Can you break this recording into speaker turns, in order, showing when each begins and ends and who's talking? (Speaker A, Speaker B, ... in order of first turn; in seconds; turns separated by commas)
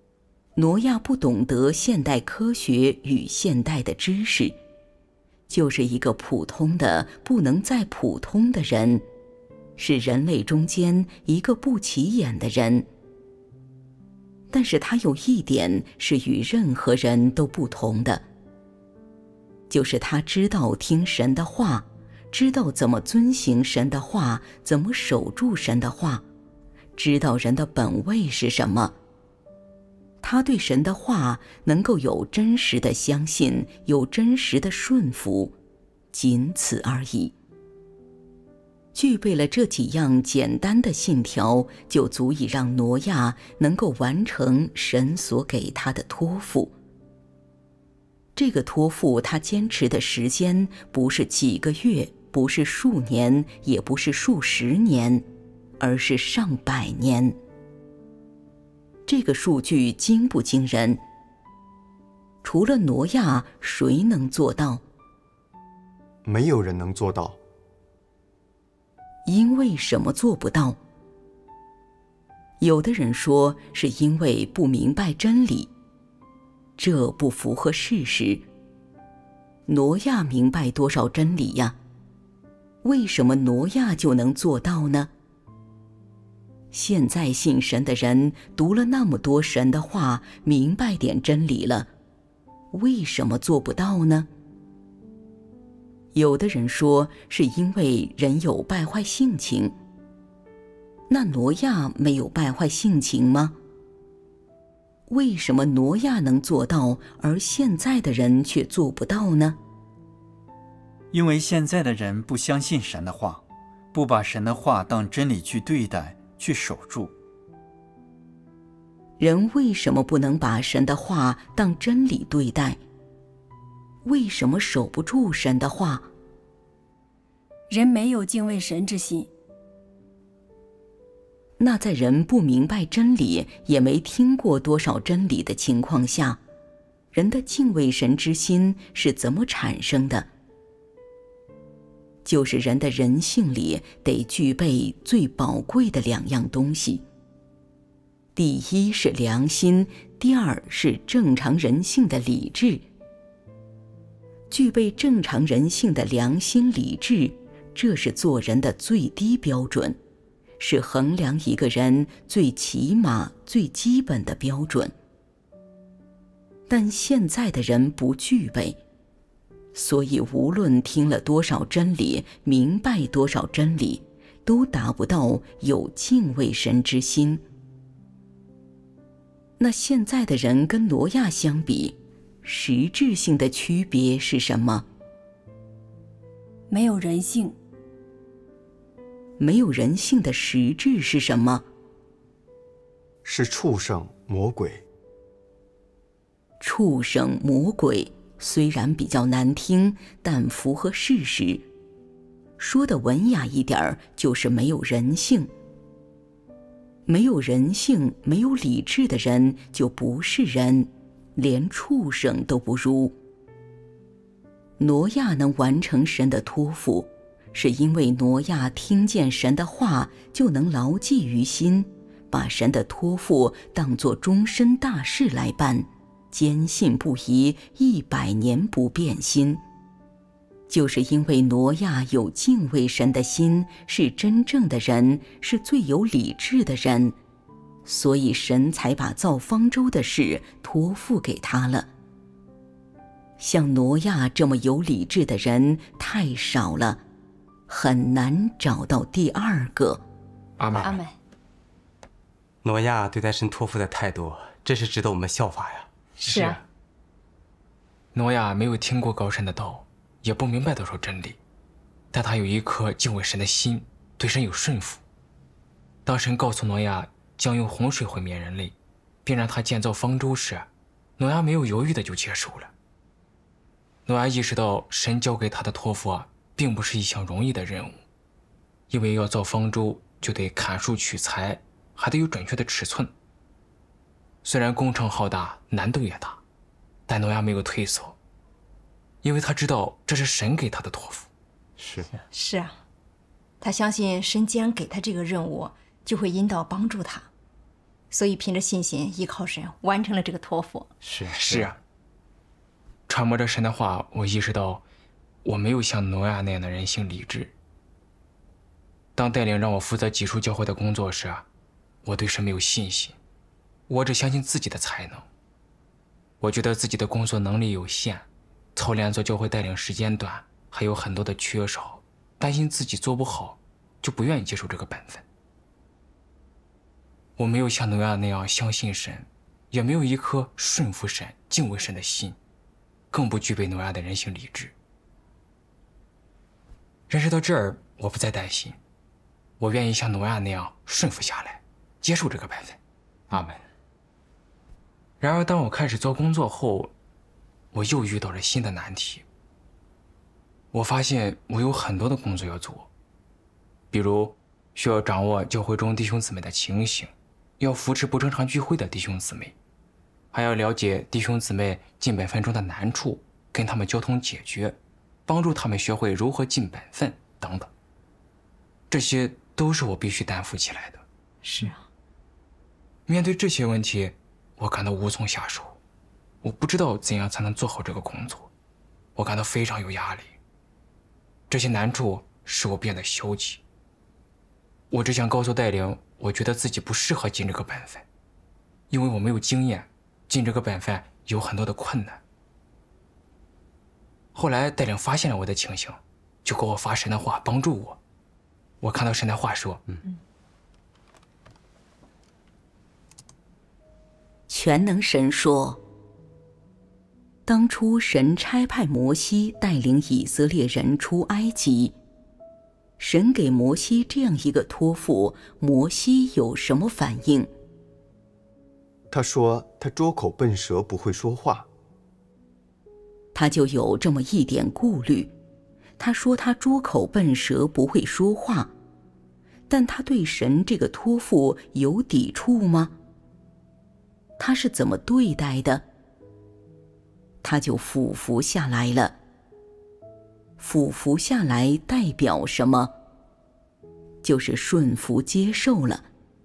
Speaker A: 0.6-4.6, Speaker A: 5.5-9.0, Speaker A: 9.8-12.9, Speaker A: 14.5-18.2, Speaker A: 19.7-26.2, Speaker A: 27.0-29.0, Speaker A: 30.2-35.5, Speaker A: 36.1-37.4, Speaker A: 38.9-46.7, Speaker A: 48.4-55.2, Speaker A: 55.8-57.4, Speaker A: 59.1-61.0, Speaker A: 62.4-64.8, Speaker B: 66.2-67.4, Speaker A: 69.3-70.8, Speaker A: 72.6-75.7, Speaker A: 76.8-78.4, Speaker A: 79.7-81.8, Speaker A: 82.8-85.1, Speaker A: 86.7-91.9, Speaker A: 92.7-94.3, Speaker A: 96.1-99.8, Speaker A: 101.1-103.6, Speaker A: 105.1-109.6, Speaker C: 111.1-117.1, Speaker A: 119.2-122.8, Speaker A: 124.0-126.1, Speaker D: 127.7-129.3, Speaker A: 131.6-136.4, Speaker A: 137.1-140.3, Speaker A: 142.2-147.0, Speaker A: 148.3-152.8, Speaker A: 154.5-160.0, Speaker A: 160.6-164.9, Speaker A: 166.7-168.8, Speaker A: 169.7-177.4, Speaker A: 179.6-184.9, Speaker D: 186.7-187.6, Speaker A: 189.4-191.7, Speaker B: 193.2-194.8, Speaker A: 196.6-201.6, Speaker A: 202.6-205.5, Speaker A: 207.1-213.2, Speaker A: 214.8-229.6, Speaker A: 230.7-237.2, Speaker A: 237.9-241.9, Speaker A: 243.4-247.0, Speaker A: 247.7-250.0, Speaker E: 250.6-250.9, Speaker F: 250.8-251.2, Speaker G: 252.6-255.9, Speaker F: 256.2-256.6, Speaker E: 256.3-256.6, Speaker E: 258.1-261.4, Speaker E: 262.1-265.0, Speaker E: 266.1-268.7, Speaker E: 269.2-270.7, Speaker E: 271.2-272.7, Speaker E: 274.1-278.0, Speaker E: 278.9-283.1, Speaker E: 284.4-286.4, Speaker E: 287.1-288.2, Speaker E: 289.2-291.3, Speaker G: 291.8-292.2, Speaker F: 292.3-292.8, Speaker F: 293.6-297.3, Speaker F: 298.1-300.9, Speaker G: 301.0-301.8, Speaker E: 301.3-301.8, Speaker E: 303.1-304.8, Speaker E: 305.4-307.5, Speaker E: 309.2-311.4, Speaker E: 312.0-313.1, Speaker E: 313.9-315.2, Speaker E: 316.4-325.2, Speaker E: 327.4-332.4, Speaker E: 333.1-334.7, Speaker E: 337.1-338.8, Speaker E: 339.6-342.8, Speaker G: 343.3-343.6, Speaker E: 345.2-346.9, Speaker E: 347.7-349.2, Speaker E: 350.7-352.9, Speaker E: 353.9-359.5, Speaker E: 360.3-367.7, Speaker E: 368.9-371.0, Speaker F: 371.4-371.8, Speaker E: 373.1-375.8, Speaker E: 376.4-378.5, Speaker E: 379.2-380.3, Speaker E: 381.5-383.6, Speaker E: 384.9-388.1, Speaker E: 388.9-392.2, Speaker E: 394.4-398.0, Speaker E: 398.8-399.8, Speaker A: 404.5-405.8, Speaker A: 407.5-411.9, Speaker A: 413.0-417.5, Speaker B: 419.1-421.7, Speaker A: 423.3-425.3, Speaker A: 426.0-428.7, Speaker A: 429.7-432.9, Speaker A: 434.4-435.9, Speaker A: 437.4-439.2, Speaker A: 440.6-442.9, Speaker A: 444.2-446.1